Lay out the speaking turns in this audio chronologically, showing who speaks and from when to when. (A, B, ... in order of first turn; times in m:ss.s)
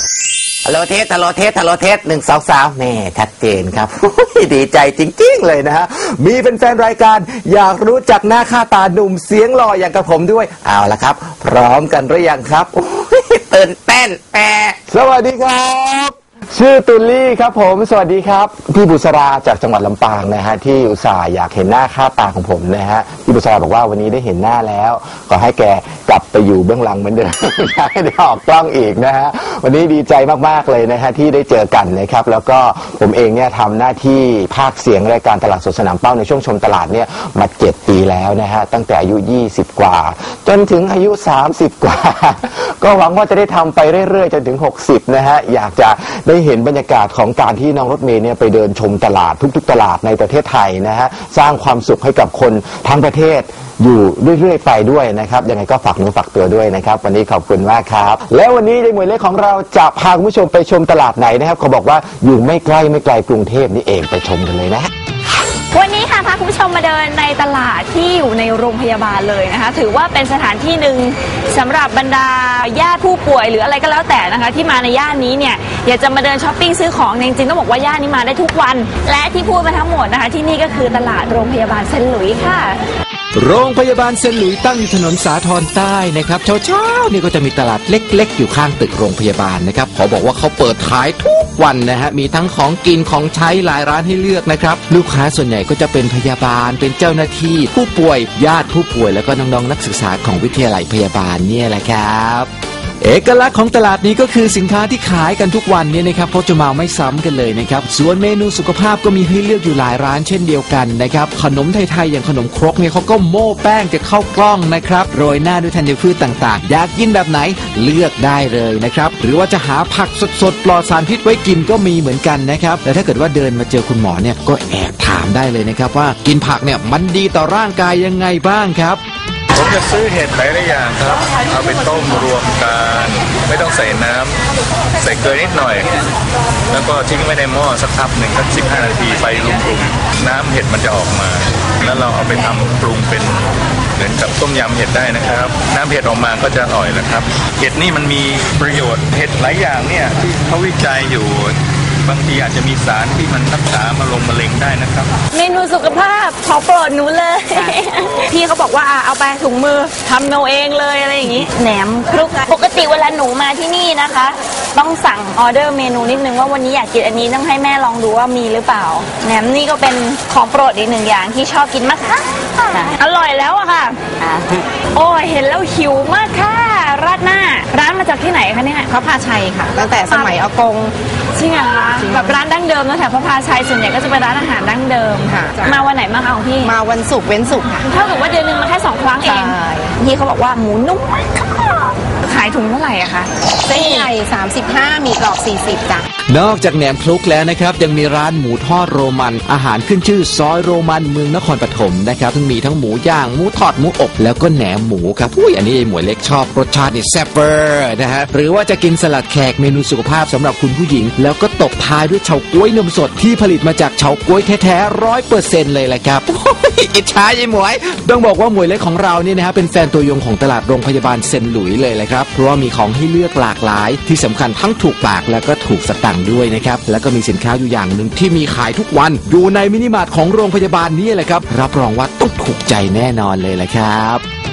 0:00.6-1:04.9 A
1:05.7-1:22.8 B
1:23.4-1:42.5 C
1:43.0-2:09.0 C
2:09.5-2:14.4 D
2:15.0-2:15.9 D
2:16.7-2:23.4 D
2:24.0-2:35.1 D
2:35.3-2:54.0 B
2:54.9-2:58.9 B
2:58.9-3:00.9 E
2:59.8-3:00.4 B
3:01.4-3:06.8 B
3:05.3-3:05.8 E
3:06.6-3:07.8 E
3:07.8-3:11.0 B
3:09.3-3:09.9 E
3:12.2-3:14.1 B
3:13.7-3:16.0 E
3:16.3-3:54.2 C